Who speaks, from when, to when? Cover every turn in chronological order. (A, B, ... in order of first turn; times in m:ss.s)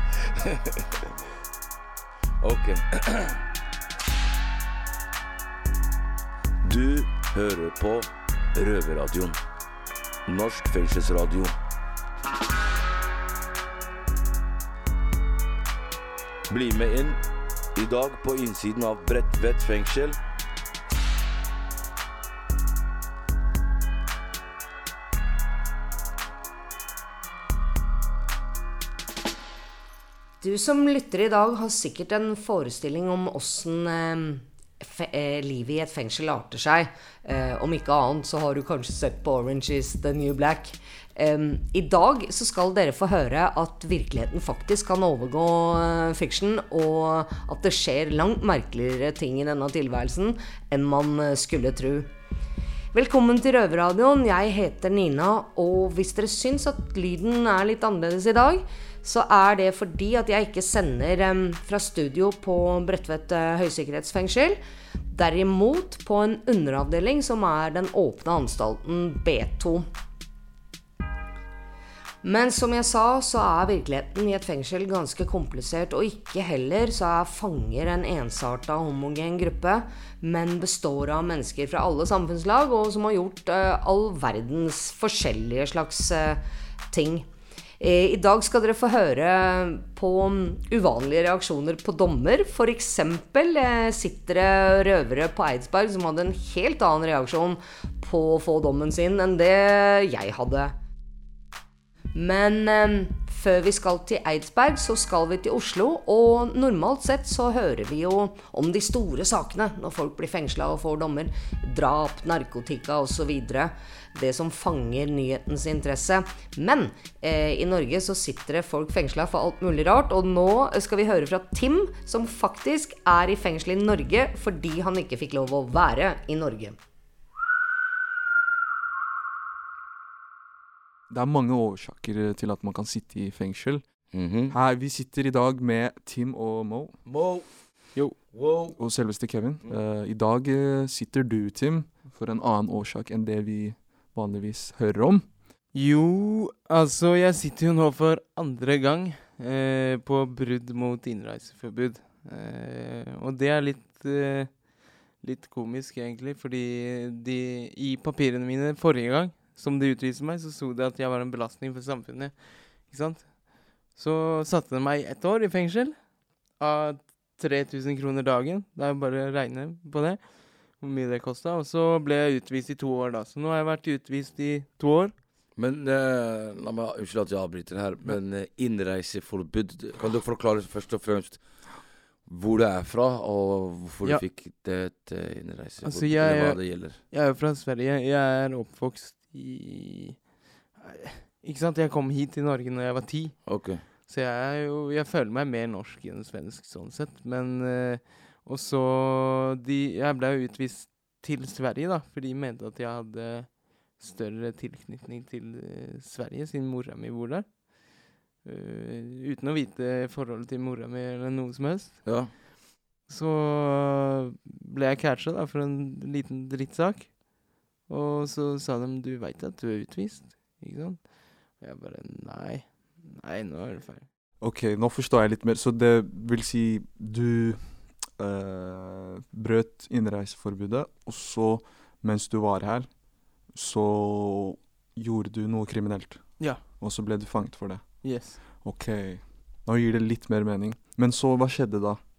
0:00.4-0:00.8 A
0:02.4-0:03.4 A
0:06.6-0:09.4 A
0:10.2-0:11.5 A
0:16.5-0:17.2 A
0:17.7-0:20.2 A
0:30.4-0:52.1 B
0:52.9-1:04.6 B
1:05.1-1:09.8 B
1:12.2-1:27.3 B
1:27.8-1:40.7 B
1:42.1-2:06.8 B
2:11.1-2:17.0 C
2:14.1-2:14.5 A
2:17.0-2:19.8 A
2:18.8-2:25.3 C
2:25.7-2:55.2 D
2:55.6-3:07.0 A
3:05.8-3:32.4 D
3:13.4-3:13.9 A
3:32.0-3:32.3 A
3:33.1-3:44.1 D
3:44.4-4:02.0 C
3:58.0-3:58.4 D